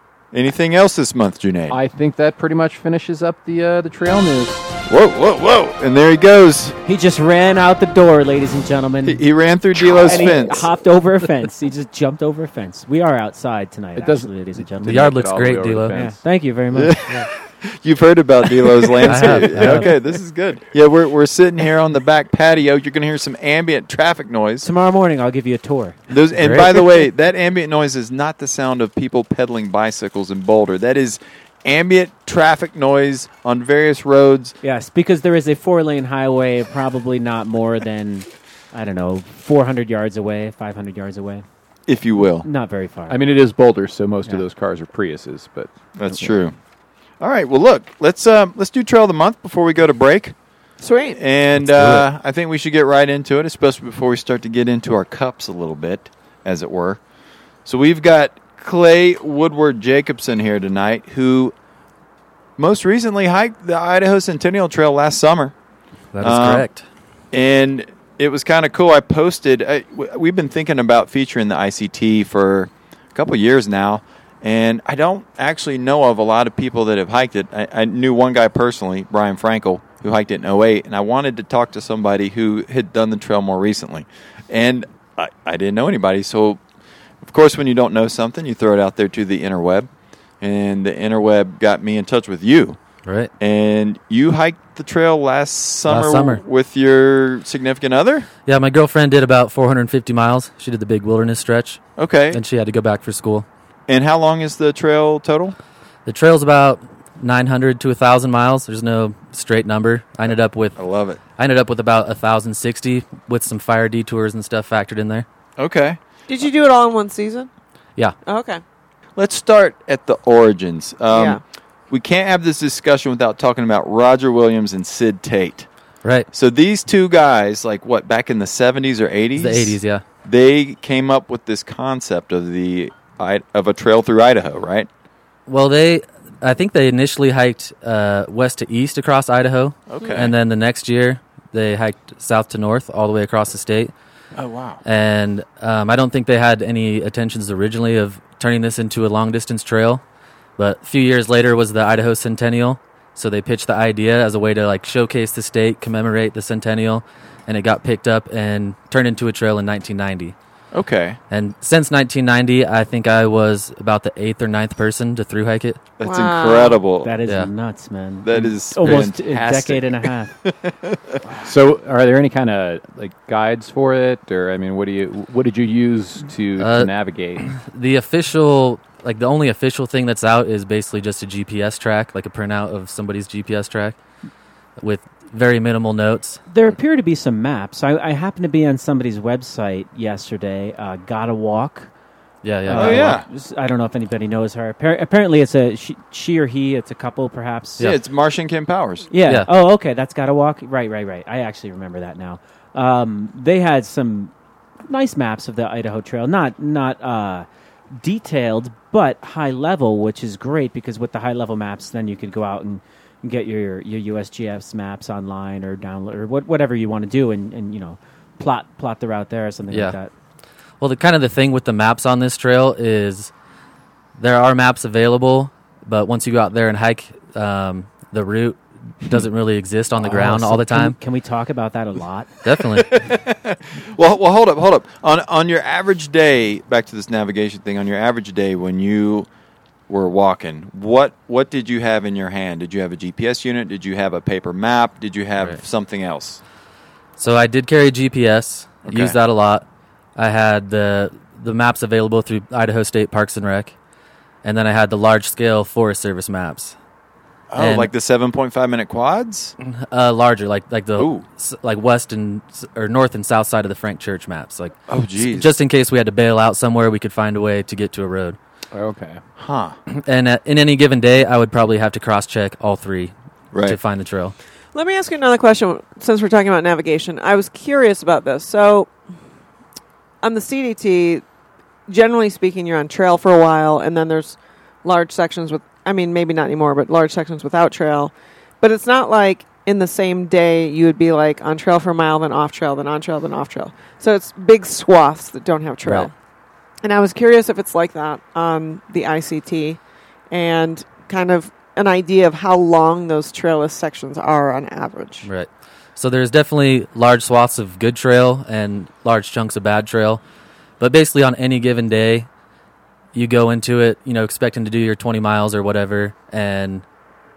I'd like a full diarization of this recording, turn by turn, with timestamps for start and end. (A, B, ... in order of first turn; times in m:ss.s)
0:00.3-0:01.8 A
0:01.7-0:04.7 B
0:04.9-0:06.8 A
0:06.8-0:09.2 C
0:09.0-0:10.7 A
0:09.8-0:15.0 C
0:14.0-0:16.2 B
0:14.8-0:16.0 D
0:15.9-0:17.0 C
0:16.7-0:24.7 A
0:19.0-0:19.9 D
0:19.1-0:19.9 C
0:24.6-0:26.0 C
0:26.1-0:34.6 A
0:26.4-0:26.8 D
0:34.6-0:41.4 C
0:41.9-0:42.5 A
0:42.4-0:43.2 C
0:43.1-0:45.7 B
0:46.0-0:46.5 A
0:47.2-0:50.4 A
0:50.8-0:51.2 E
0:51.2-0:57.0 A
0:51.6-0:52.1 D
0:57.6-1:01.5 A
1:02.6-1:05.5 A
1:06.1-1:06.8 D
1:06.2-1:06.7 A
1:07.3-1:26.6 A
1:27.2-1:29.9 A
1:30.4-1:32.8 A
1:33.0-1:33.3 D
1:33.4-1:38.3 A
1:35.9-1:36.4 D
1:38.4-1:43.5 D
1:42.0-1:42.4 A
1:43.9-1:45.6 A
1:46.1-1:50.8 D
1:50.8-1:51.2 A
1:51.4-1:55.3 D
1:55.6-1:56.0 A
1:56.3-1:57.5 E
1:58.3-1:58.6 E
1:59.2-2:05.7 A
2:01.1-2:01.4 E
2:06.0-2:06.3 D
2:06.3-2:14.9 A
2:09.4-2:10.1 D
2:15.5-2:23.9 D
2:19.9-2:20.3 A
2:24.4-2:24.8 A
2:24.8-2:30.0 D
2:30.6-2:40.4 D
2:40.7-2:41.2 A
2:41.3-2:45.8 D
2:46.0-2:47.2 A
2:46.0-2:46.8 E
2:47.0-2:50.4 C
2:48.2-2:51.2 A
2:51.4-2:57.5 B
2:56.6-3:04.0 D
3:04.8-3:06.4 D
3:06.5-3:11.9 C
3:12.4-3:13.2 D
3:12.7-3:17.9 C
3:12.8-3:13.3 A
3:17.8-3:19.1 A
3:19.1-3:24.3 C
3:19.2-3:19.5 D
3:24.9-3:40.1 C
3:39.7-3:40.0 D
3:40.8-3:43.3 D
3:44.2-3:51.0 D
3:50.0-3:52.3 C
3:52.4-3:52.9 D
3:52.9-3:59.3 A
3:59.9-4:06.4 A
4:07.2-4:09.6 D
4:08.8-4:09.2 A
4:10.2-4:13.8 D
4:14.4-4:16.8 D
4:17.5-4:19.6 A
4:17.6-4:17.9 D
4:19.6-4:28.4 D
4:21.0-4:21.3 A
4:24.9-4:25.5 A
4:28.7-4:29.2 B
4:29.4-4:29.8 A
4:29.9-4:33.1 D
4:33.5-4:33.8 A
4:33.7-4:34.4 D
4:34.7-4:38.9 E
4:40.2-4:41.2 E
4:41.9-4:56.1 E
4:56.8-4:59.8 E
5:00.3-5:05.3 E
5:05.2-5:10.2 D
5:10.8-5:12.3 D
5:13.1-5:16.8 D